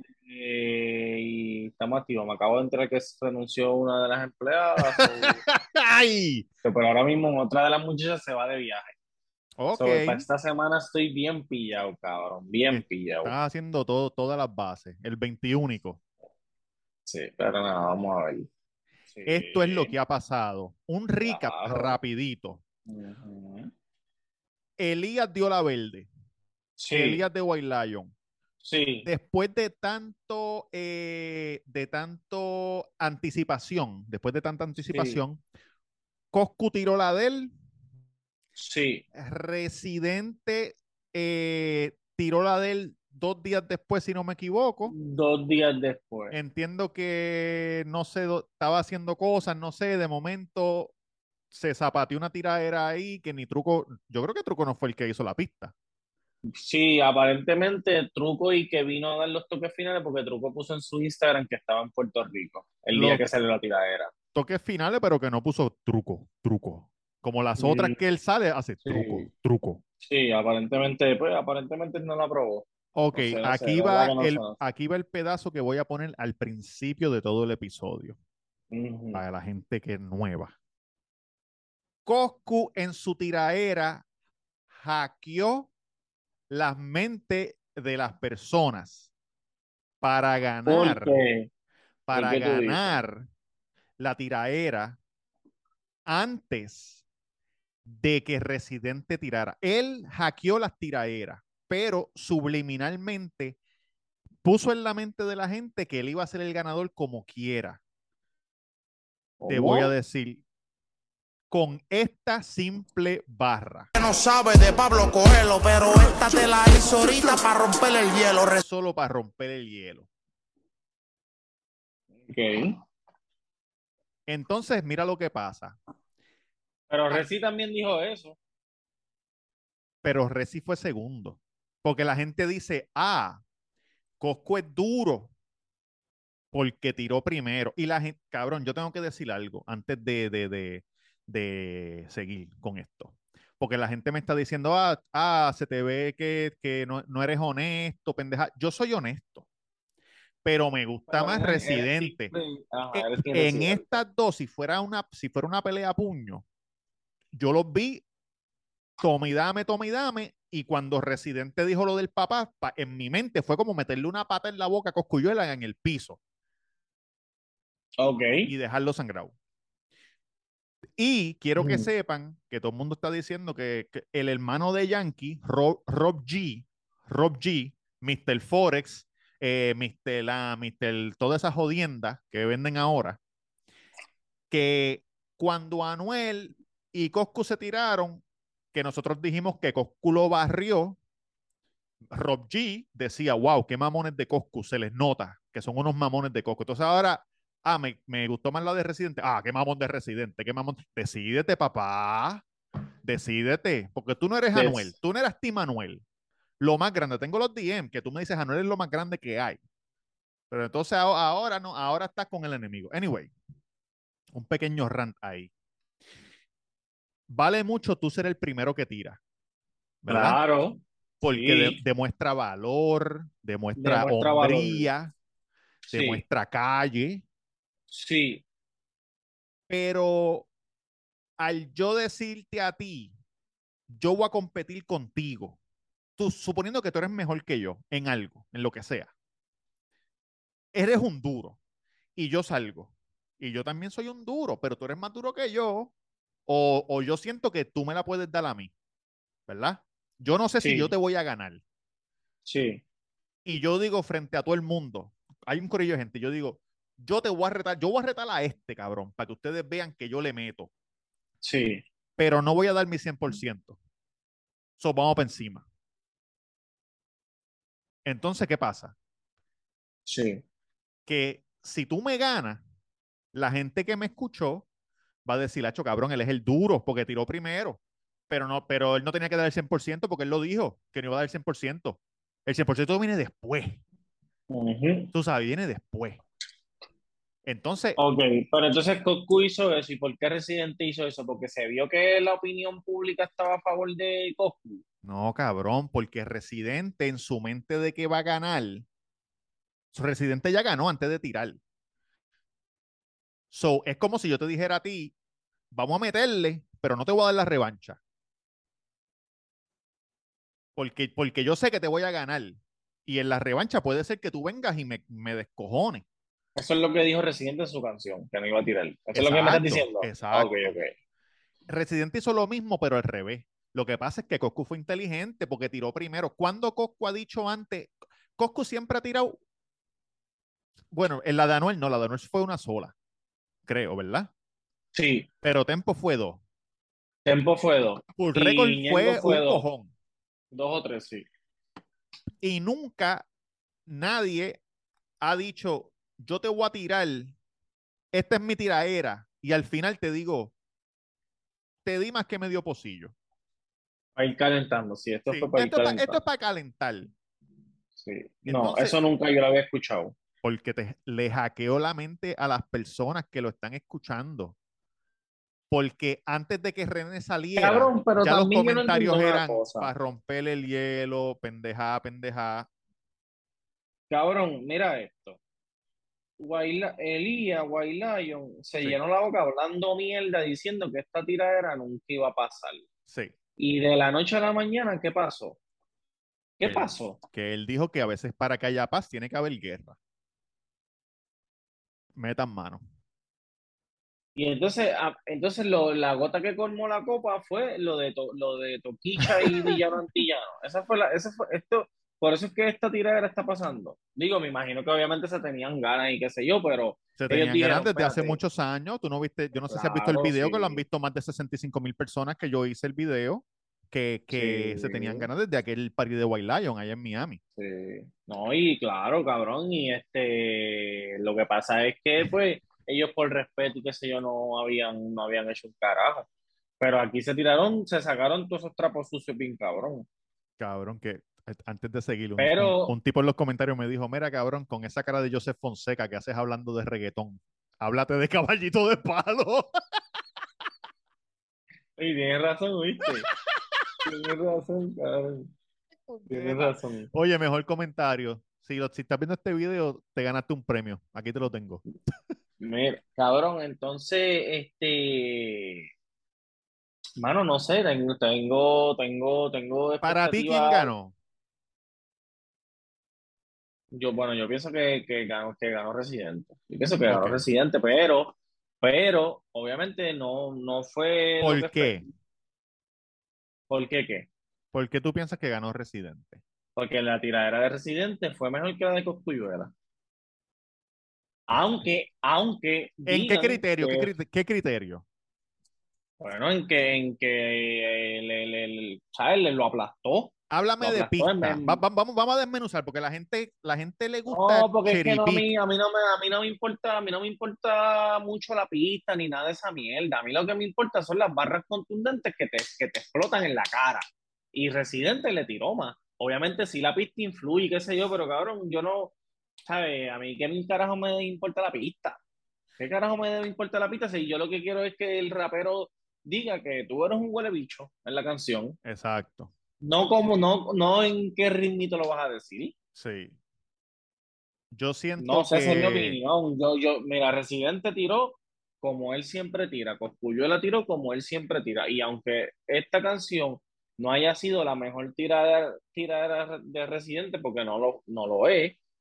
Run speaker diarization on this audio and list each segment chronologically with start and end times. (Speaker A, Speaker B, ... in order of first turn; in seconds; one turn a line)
Speaker A: 0.2-5.4
Speaker B: 4.8-6.5
Speaker A: 6.6-8.9
Speaker B: 9.6-10.2
Speaker A: 9.7-13.3
Speaker B: 12.7-16.0
Speaker A: 17.1-18.5
Speaker A: 19.1-19.9
Speaker B: 19.2-22.6
Speaker A: 21.2-22.0
Speaker A: 22.9-23.7
Speaker B: 24.8-26.1
Speaker A: 26.8-27.2
Speaker B: 26.9-28.1
Speaker A: 28.6-29.1
Speaker B: 29.0-35.4
Speaker A: 34.9-35.2
Speaker B: 36.3-37.5
Speaker A: 38.6-39.0
Speaker B: 39.1-44.9
Speaker A: 44.9-46.3
Speaker B: 46.3-50.9
Speaker B: 51.5-55.7
Speaker A: 56.5-64.1
Speaker B: 62.9-63.2
Speaker B: 64.3-69.8
Speaker A: 67.6-68.0
Speaker A: 68.8-69.3
Speaker A: 70.0-74.6
Speaker B: 73.0-78.2
Speaker A: 78.7-79.2
Speaker B: 79.1-80.5
Speaker B: 82.1-84.0
Speaker B: 84.7-85.7
Speaker B: 86.5-89.1
Speaker B: 90.0-91.2
Speaker A: 90.7-91.5
Speaker B: 92.1-93.3
Speaker A: 92.1-92.9
Speaker B: 94.0-95.0
Speaker B: 96.1-97.0
Speaker B: 97.8-103.6
Speaker B: 104.4-107.8
Speaker A: 109.4-109.9
Speaker B: 109.5-110.4
Speaker B: 111.5-113.9
Speaker C: 114.0-118.6
Speaker B: 118.6-120.1
Speaker A: 122.2-122.8
Speaker B: 124.3-125.8
Speaker A: 126.9-128.4
Speaker B: 130.0-133.4
Speaker B: 134.2-135.3
Speaker B: 136.5-149.5
Speaker B: 150.4-152.3
Speaker A: 151.1-154.0
Speaker B: 152.9-156.4
Speaker B: 157.3-158.0
Speaker B: 159.0-166.2
Speaker A: 168.0-168.5
Speaker B: 168.4-169.3
Speaker B: 171.0-183.2
Speaker A: 171.6-171.9
Speaker B: 184.5-191.0
Speaker B: 192.1-202.4
Speaker B: 203.0-206.0
Speaker A: 204.5-204.9
Speaker B: 206.6-209.6
Speaker B: 210.5-213.3
Speaker B: 214.3-215.5
Speaker B: 217.3-219.2
Speaker B: 220.0-220.4
Speaker A: 220.1-221.8
Speaker B: 221.2-225.1
Speaker A: 223.8-224.9
Speaker B: 225.9-227.2
Speaker A: 225.9-226.2
Speaker A: 227.9-228.4
Speaker B: 229.7-230.5
Speaker B: 231.4-233.1
Speaker B: 233.9-235.6
Speaker B: 236.2-239.1
Speaker B: 240.7-241.6
Speaker B: 242.2-245.9
Speaker B: 246.5-248.7
Speaker B: 249.5-251.6
Speaker A: 250.6-250.9
Speaker A: 252.5-252.8
Speaker B: 253.4-260.7
Speaker A: 261.4-261.8
Speaker B: 262.2-263.8
Speaker B: 264.8-265.6
Speaker B: 268.0-268.9
Speaker A: 270.1-270.4
Speaker B: 271.1-272.6
Speaker B: 273.3-274.6
Speaker B: 275.2-283.8
Speaker A: 284.5-285.1
Speaker B: 285.1-286.2
Speaker B: 287.4-288.0
Speaker A: 288.0-294.8
Speaker B: 295.0-298.9
Speaker B: 299.9-301.6
Speaker B: 303.5-305.1
Speaker B: 305.7-308.0
Speaker B: 310.8-316.0
Speaker A: 316.6-320.9
Speaker B: 319.1-320.8
Speaker B: 321.7-329.4
Speaker B: 330.9-332.9
Speaker B: 333.6-334.3
Speaker A: 334.9-335.3
Speaker B: 335.4-336.4
Speaker A: 337.2-339.6
Speaker B: 338.1-339.9
Speaker A: 340.5-341.3
Speaker B: 342.4-343.3
Speaker B: 343.9-344.6
Speaker B: 345.2-347.4
Speaker B: 348.1-350.5
Speaker B: 351.9-353.1
Speaker A: 354.1-356.2
Speaker B: 355.3-357.1
Speaker A: 358.0-360.1
Speaker B: 358.4-359.0
Speaker B: 360.4-364.5
Speaker B: 365.7-372.7
Speaker A: 367.6-369.9
Speaker A: 374.1-375.4
Speaker A: 376.4-382.9
Speaker B: 383.1-383.3
Speaker A: 383.6-385.6
Speaker A: 386.6-387.2
Speaker B: 386.6-390.0
Speaker B: 392.1-392.8
Speaker A: 394.4-408.4
Speaker B: 399.2-399.8
Speaker B: 407.2-417.4
Speaker A: 409.7-410.8
Speaker A: 414.3-415.3
Speaker A: 417.6-426.3
Speaker A: 426.8-430.1
Speaker B: 430.6-439.8
Speaker A: 432.4-432.9
Speaker A: 442.0-443.3
Speaker A: 444.0-445.5
Speaker B: 446.1-451.8
Speaker A: 446.3-447.1
Speaker A: 452.6-455.9
Speaker A: 457.2-460.9
Speaker B: 460.0-461.1
Speaker A: 463.9-472.0
Speaker B: 467.0-467.4
Speaker B: 471.4-472.1
Speaker A: 473.7-474.3
Speaker B: 474.7-476.4
Speaker A: 476.8-479.7
Speaker A: 481.5-484.1
Speaker B: 483.1-485.0
Speaker A: 486.2-491.8
Speaker B: 490.5-495.5
Speaker A: 494.3-509.1
Speaker A: 509.6-512.2
Speaker A: 512.8-518.8
Speaker B: 518.8-519.5
Speaker A: 519.8-522.7
Speaker B: 523.0-523.3
Speaker B: 524.7-526.2
Speaker A: 525.2-538.8